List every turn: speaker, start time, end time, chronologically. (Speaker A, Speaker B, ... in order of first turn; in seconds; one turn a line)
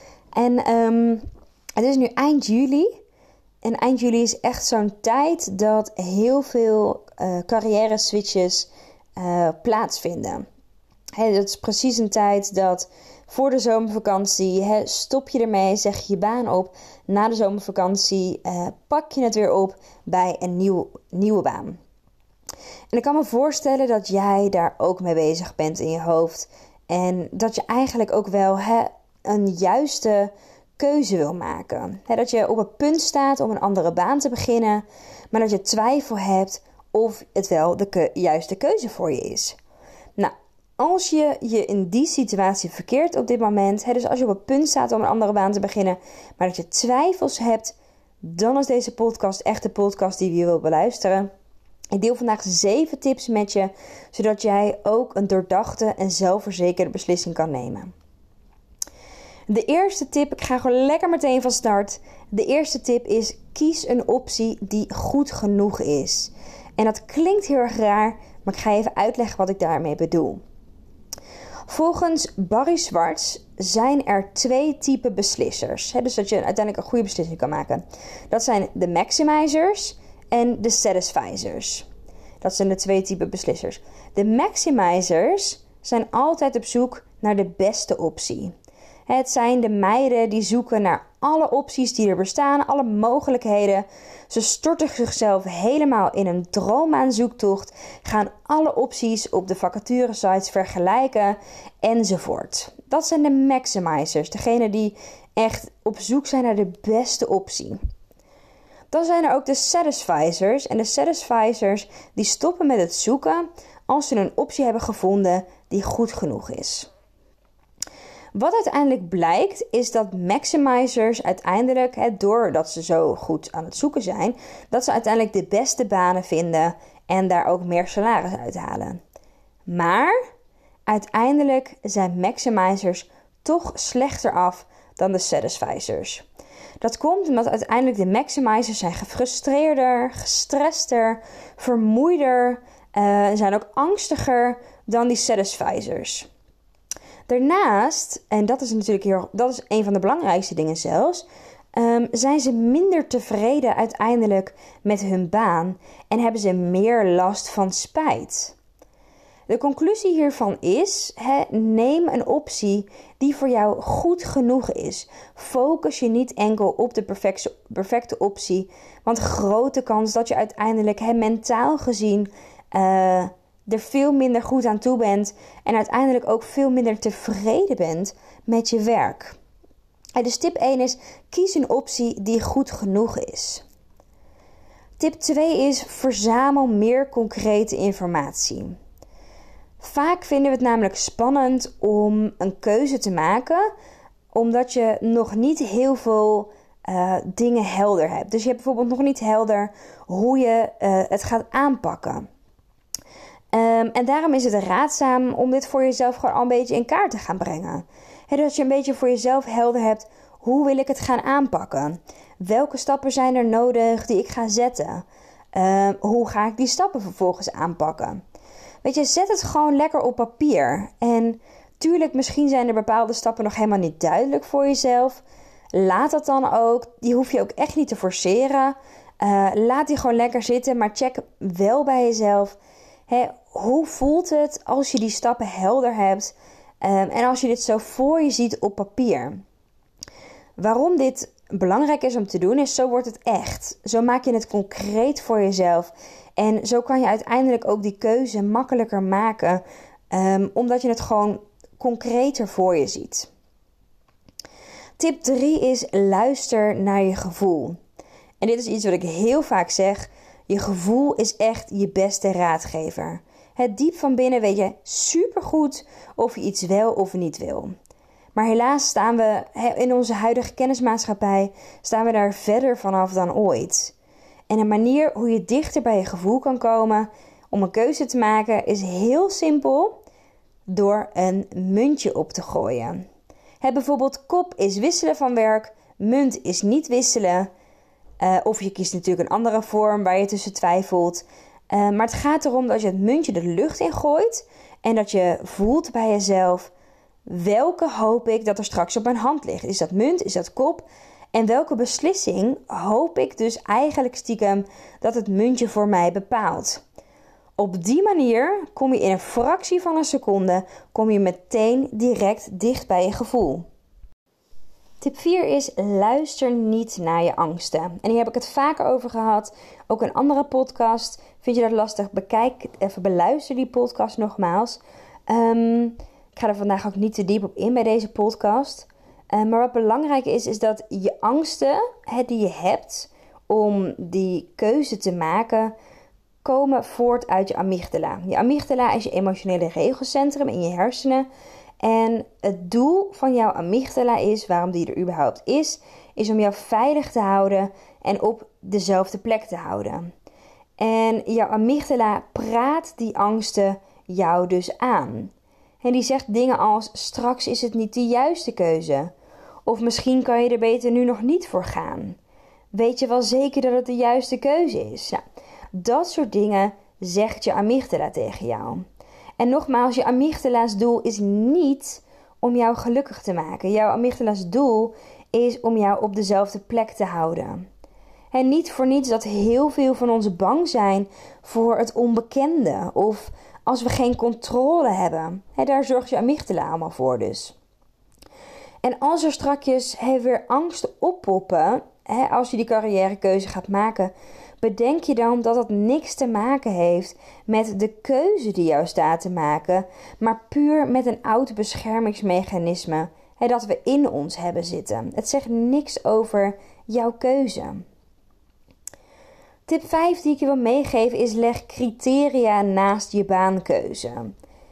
Speaker A: 0.3-1.2
Speaker A: 1.8-2.9
Speaker A: 3.6-10.5
Speaker A: 11.2-21.8
Speaker A: 22.9-39.6
Speaker A: 40.2-51.3
Speaker A: 51.9-57.9
Speaker A: 59.5-70.4
Speaker A: 71.7-81.9
Speaker A: 82.4-88.5
Speaker A: 89.1-107.8
Speaker A: 108.9-116.9
Speaker A: 118.3-129.0
Speaker A: 129.7-130.2
Speaker A: 130.9-136.2
Speaker A: 136.8-146.3
Speaker A: 147.3-158.6
Speaker A: 159.5-179.4
Speaker A: 180.2-183.6
Speaker A: 185.0-188.8
Speaker A: 189.8-193.7
Speaker A: 194.3-202.3
Speaker A: 203.5-218.2
Speaker A: 218.8-232.6
Speaker A: 233.1-239.4
Speaker A: 240.6-253.3
Speaker A: 255.0-257.8
Speaker A: 258.4-267.7
Speaker A: 268.4-273.9
Speaker A: 274.5-280.0
Speaker A: 280.7-283.1
Speaker A: 283.6-287.5
Speaker A: 288.2-296.7
Speaker A: 297.3-306.8
Speaker A: 307.6-313.7
Speaker A: 315.0-335.8
Speaker A: 336.4-341.3
Speaker A: 341.8-350.1
Speaker A: 350.8-359.1
Speaker A: 359.7-362.2
Speaker A: 362.7-365.2
Speaker A: 365.7-368.8
Speaker A: 369.4-377.7
Speaker A: 378.3-387.6
Speaker A: 388.8-407.9
Speaker A: 409.7-414.3